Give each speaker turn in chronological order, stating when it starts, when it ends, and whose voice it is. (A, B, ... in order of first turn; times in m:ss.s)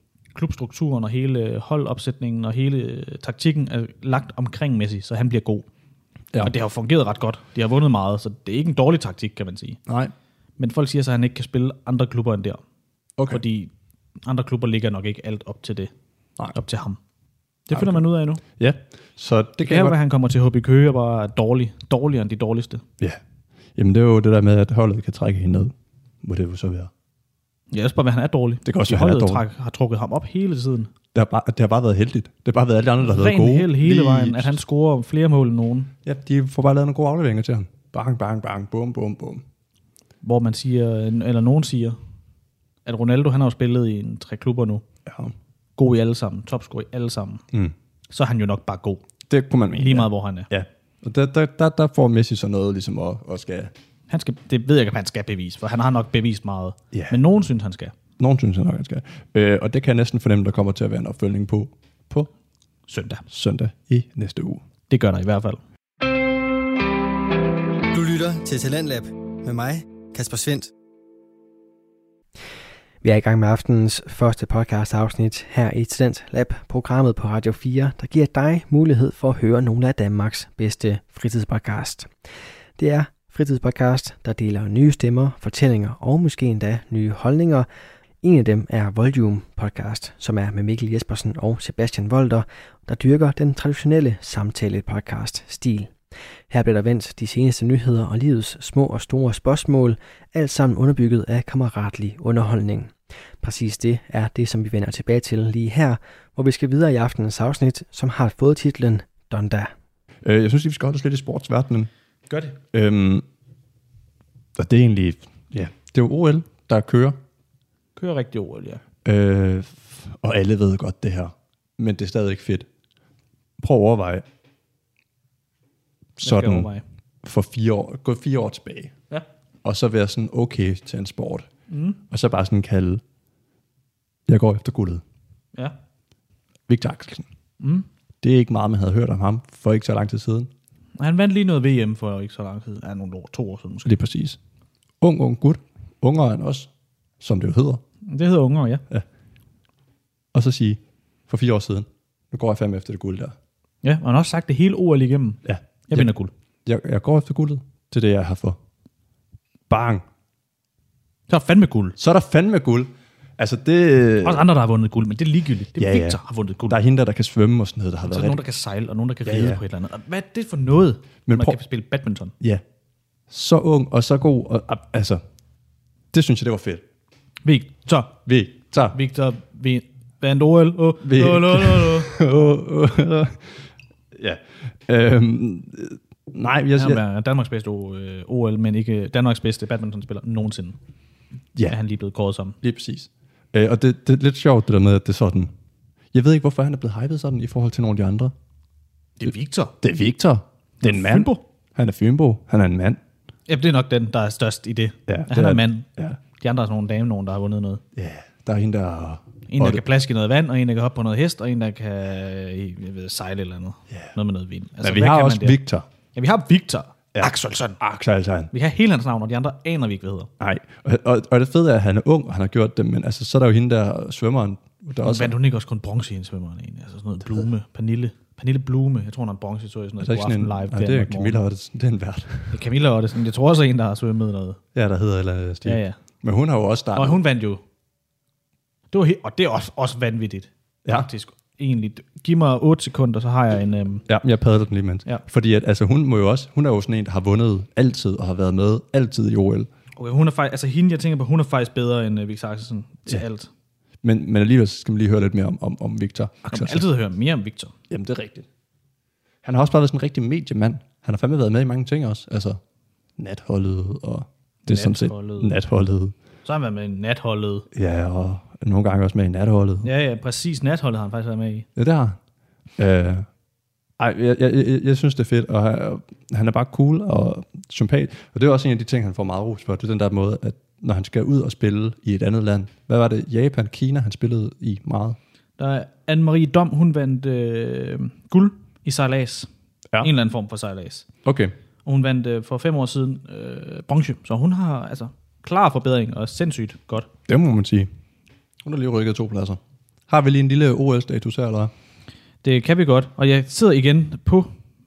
0:00.3-0:05.7 A
0:06.4-0:09.8 A
0:09.9-0:10.1 B
0:10.6-0:12.6 A
0:13.3-0:13.7 A
0:14.2-0:15.9 A
0:16.5-0:17.0 A
0:17.7-0:18.4 A
0:17.7-0:18.0 B
0:18.6-0:20.0 B
0:19.6-0:22.8 A
0:23.8-0:26.9 B
0:27.7-0:30.9 A
0:28.6-0:29.4 B
0:31.1-0:34.6 B
0:33.0-0:35.9 A
0:36.0-0:39.4 B
0:40.2-0:42.0 A
0:42.8-0:44.8 A
0:45.0-0:45.3 B
0:45.8-0:47.4 A
0:48.1-0:49.0 A
0:49.3-0:53.7 B
0:49.8-0:50.5 A
0:54.1-0:57.9 A
0:56.9-0:57.2 B
0:58.2-1:02.3 B
1:02.9-1:03.2 A
1:03.3-1:04.6 B
1:04.9-1:05.6 A
1:07.9-1:10.7 C
1:13.0-1:22.1 D
1:22.8-1:27.7 D
1:28.2-1:35.9 D
1:36.5-1:49.7 D
1:50.2-1:51.9 B
1:52.3-1:52.6 A
1:52.7-1:53.2 B
1:54.6-1:57.2 B
1:58.0-1:58.8 A
1:59.0-2:02.6 B
2:03.6-2:04.2 B
2:06.2-2:06.7 B
2:06.2-2:06.8 A
2:07.2-2:08.9 B
2:09.6-2:11.5 B
2:11.7-2:12.0 A
2:12.1-2:13.0 B
2:14.3-2:15.0 B
2:16.7-2:17.2 B
2:17.6-2:17.8 A
2:18.2-2:20.5 B
2:21.0-2:23.9 A
2:23.8-2:24.4 B
2:25.0-2:26.7 B
2:27.2-2:27.8 B
2:28.1-2:28.8 A
2:30.3-2:33.3 B
2:33.8-2:36.3 A
2:35.4-2:36.1 B
2:36.6-2:38.6 B
2:39.7-2:40.0 B
2:41.3-2:42.0 A
2:42.0-2:44.4 B
2:44.2-2:46.8 A
2:45.8-2:48.4 B
2:48.0-2:52.3 A
2:49.2-2:49.6 B
2:51.3-2:51.6 B
2:53.3-2:55.2 B
2:56.1-2:56.8 B
2:57.4-2:58.2 A
2:58.2-2:59.0 B
2:58.9-3:02.2 A
3:01.0-3:03.5 B
3:04.1-3:07.0 B
3:06.8-3:10.8 A
3:11.7-3:12.6 A
3:12.6-3:15.5 B
3:16.1-3:18.3 B
3:19.2-3:19.7 A
3:19.8-3:23.0 B
3:20.8-3:21.4 A
3:23.5-3:25.8 A
3:25.1-3:26.2 B
3:26.4-3:27.8 A
3:28.0-3:29.8 B
3:29.5-3:35.6 A
3:34.8-3:35.8 B
3:36.1-3:37.8 A
3:37.1-3:38.5 B
3:38.5-3:40.3 A
3:40.4-3:45.3 B
3:45.0-3:51.4 A
3:50.0-3:52.5 B
3:52.5-3:54.6 A
3:54.7-3:57.2 B
3:55.6-3:56.0 A
3:56.9-3:57.6 A
3:58.9-4:04.0 A
4:04.1-4:09.7 B
4:10.0-4:13.5 A
4:14.0-4:16.8 B
4:16.5-4:17.7 A
4:17.9-4:18.4 B
4:19.4-4:22.6 B
4:23.2-4:26.1 B
4:24.7-4:25.5 A
4:26.4-4:27.6 A
4:27.7-4:29.9 B
4:29.8-4:31.6 A
4:31.8-4:32.2 B
4:32.8-4:33.2 B
4:34.0-4:45.2 B
4:45.6-4:49.5 A
4:50.0-4:51.0 A
4:51.2-4:51.5 B
4:51.8-4:57.1 A
4:57.3-4:57.9 B
4:58.6-5:01.7 B
5:02.4-5:04.5 A